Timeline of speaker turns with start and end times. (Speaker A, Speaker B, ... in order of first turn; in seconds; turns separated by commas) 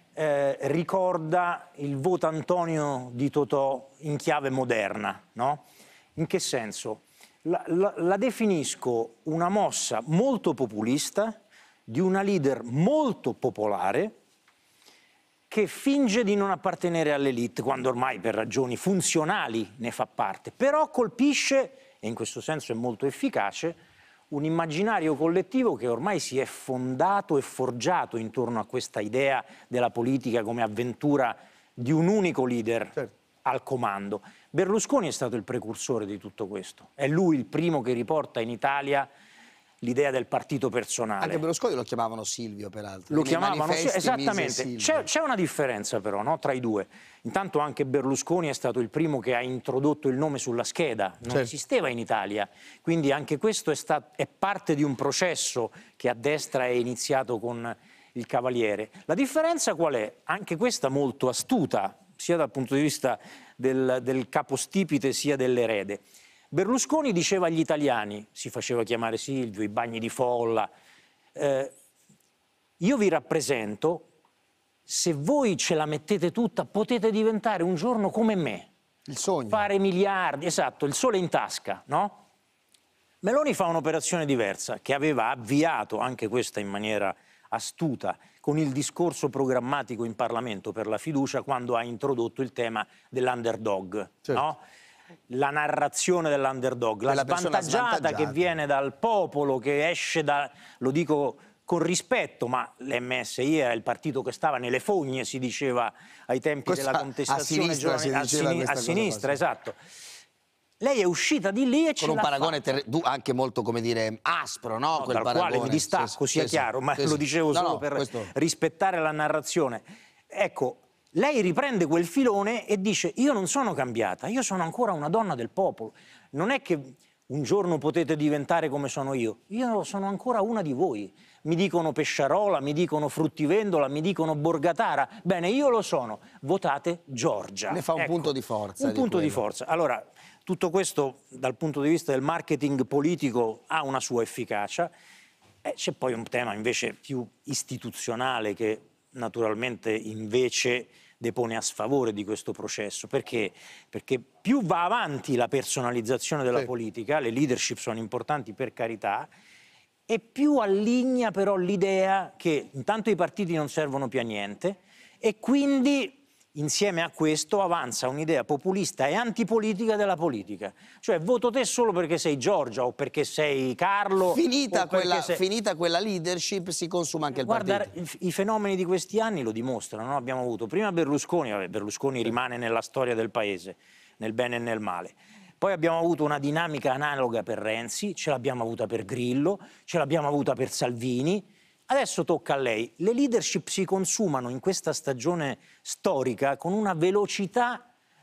Speaker A: 0.1-5.6, Speaker A: 6.2-11.3, Speaker A: 11.9-14.2, Speaker A: 15.5-23.8, Speaker A: 24.3-39.1, Speaker A: 39.8-41.4, Speaker B: 41.2-45.1, Speaker A: 43.1-70.7, Speaker A: 71.3-71.7, Speaker A: 72.8-74.1, Speaker A: 74.9-78.7, Speaker B: 79.1-79.7, Speaker A: 79.5-82.2, Speaker A: 83.2-94.6, Speaker A: 95.3-109.8, Speaker B: 97.1-98.4, Speaker B: 106.7-109.4, Speaker A: 110.8-112.8, Speaker B: 112.0-118.3, Speaker A: 114.9-144.9, Speaker B: 137.7-139.4, Speaker A: 145.6-159.3, Speaker A: 160.1-175.4, Speaker B: 174.2-177.9, Speaker A: 177.4-197.9